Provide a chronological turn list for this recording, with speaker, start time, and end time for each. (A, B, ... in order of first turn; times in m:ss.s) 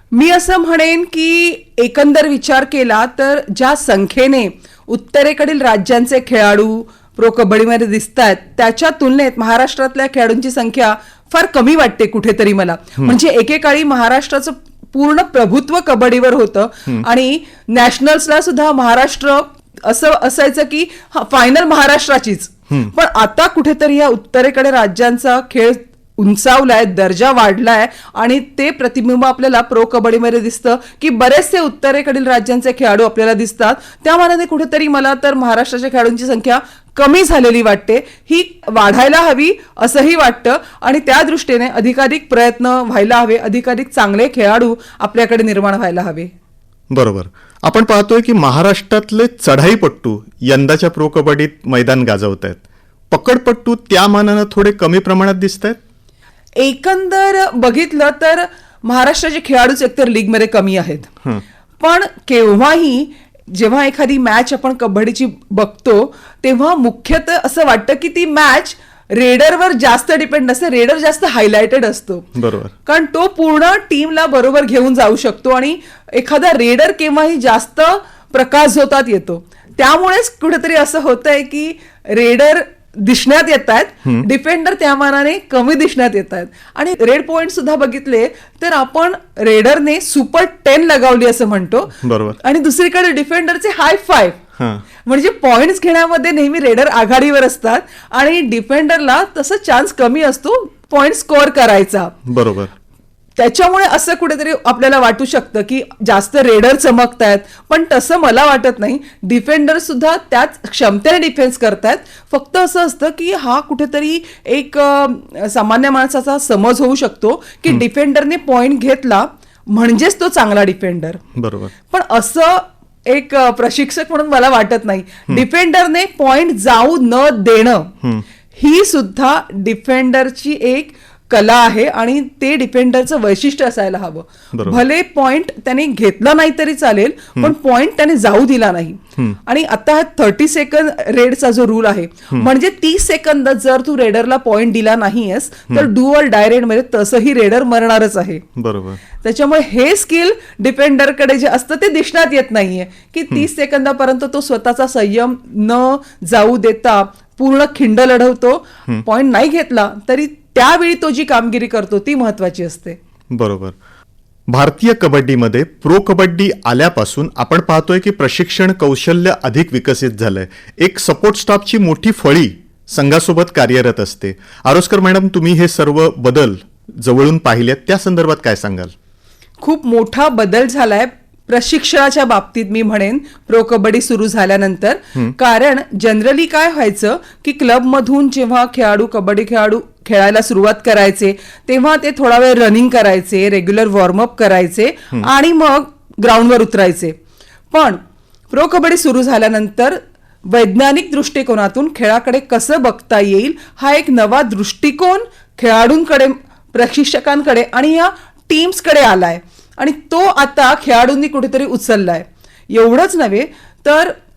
0:00.1-0:46.3 A
0:46.9-0:55.8 B
0:56.6-1:01.1 A
1:01.8-1:12.3 A
1:12.3-1:12.7 B
1:12.8-1:31.9 A
1:32.0-1:32.4 B
1:32.4-1:34.4 A
1:34.6-1:34.8 B
1:35.0-1:42.1 A
1:42.2-1:42.7 B
1:43.4-2:01.2 A
2:01.3-2:01.7 B
2:01.9-2:07.9 A
2:08.6-2:28.4 A
2:14.5-2:14.8 B
2:28.6-2:29.0 B
2:29.2-2:43.0 A
2:43.3-2:43.8 B
2:44.5-2:58.9 B
2:59.6-3:17.1 A
3:17.7-3:34.1 A